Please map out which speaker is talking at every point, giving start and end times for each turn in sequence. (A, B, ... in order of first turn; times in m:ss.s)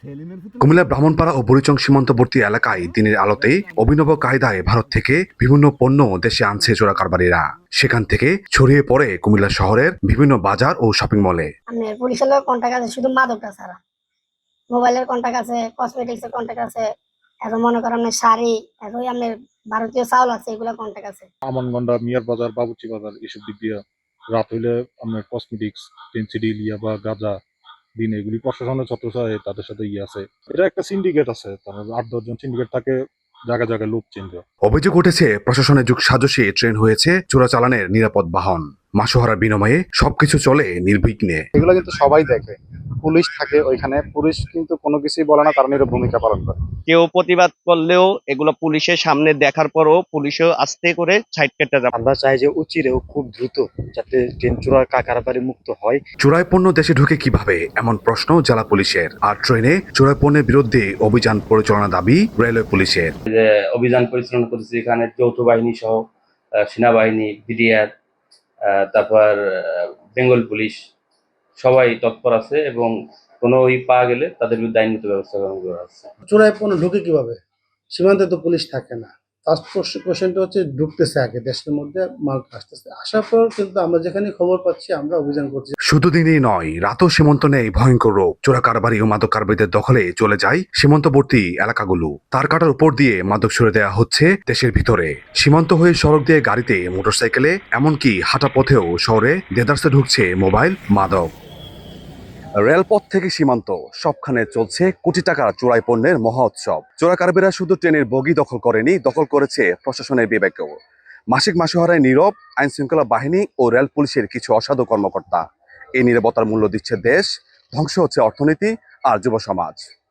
0:00.6-0:11.5 A
0:11.7-0:13.8 B
0:14.7-0:16.9 B
0:17.4-0:21.3 B
0:21.5-0:27.4 C
0:28.0-0:34.4 C
0:34.7-0:41.4 A
0:41.6-0:46.5 D
0:41.6-0:42.2 E
0:43.1-0:46.5 E
0:46.9-0:51.9 F
0:52.0-0:56.0 D
0:52.9-0:55.9 E
0:56.2-1:03.1 A
1:03.3-1:06.0 G
1:06.7-1:07.9 G
1:08.7-1:10.8 G
1:11.6-1:16.1 G
1:16.3-1:17.4 H
1:17.9-1:25.7 H
1:25.9-1:41.3 A
1:42.6-1:50.8 A
1:51.3-1:55.4 A
1:56.0-1:59.8 A